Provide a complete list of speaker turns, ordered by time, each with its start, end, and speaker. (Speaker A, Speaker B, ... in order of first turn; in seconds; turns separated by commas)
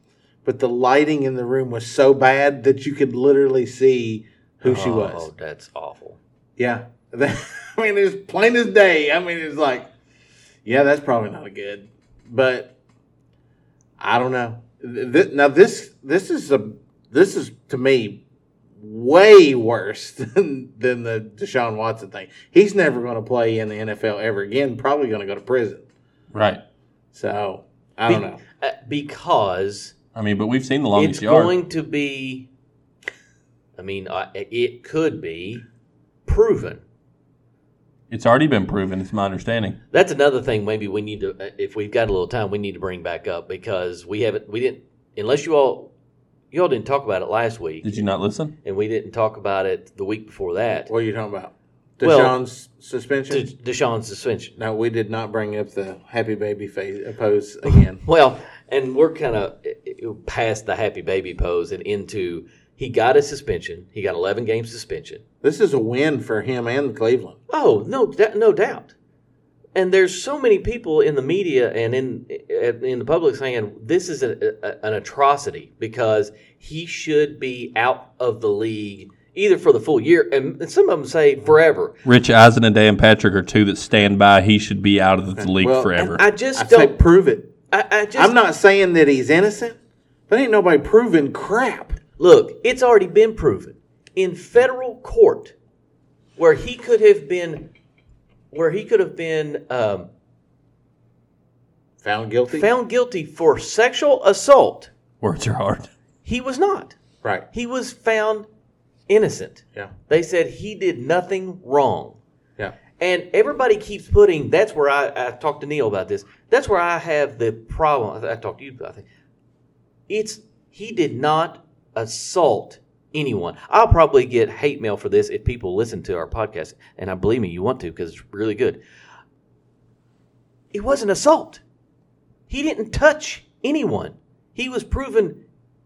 Speaker A: 0.4-5.3, Speaker B: 4.6-6.2, Speaker A: 6.6-9.9, Speaker A: 10.7-12.7, Speaker A: 14.0-18.2, Speaker A: 18.8-25.8, Speaker C: 26.3-26.6, Speaker A: 27.1-28.4, Speaker B: 28.1-29.9, Speaker C: 30.1-31.6, Speaker B: 30.9-32.5, Speaker B: 33.8-35.6, Speaker B: 36.3-36.8, Speaker C: 38.1-39.8, Speaker B: 39.9-45.9, Speaker B: 46.5-48.1, Speaker C: 47.8-48.5, Speaker B: 48.6-50.9, Speaker A: 50.9-53.5, Speaker B: 52.0-52.4, Speaker B: 53.3-54.5, Speaker A: 54.6-58.0, Speaker B: 58.0-65.2, Speaker A: 65.4-67.4, Speaker B: 67.5-68.9, Speaker B: 69.8-82.0, Speaker C: 82.0-86.2, Speaker A: 85.4-87.5, Speaker B: 86.0-87.0, Speaker B: 87.7-88.3, Speaker A: 88.2-89.8, Speaker A: 90.3-92.0, Speaker B: 92.2-95.5, Speaker B: 96.4-97.7, Speaker B: 98.5-100.1, Speaker A: 102.0-102.7, Speaker B: 102.5-104.9, Speaker C: 105.2-105.9, Speaker B: 106.2-107.0, Speaker B: 107.5-108.5, Speaker B: 109.1-112.2, Speaker B: 113.0-119.1, Speaker B: 120.1-128.8, Speaker B: 130.7-131.6, Speaker B: 132.5-135.4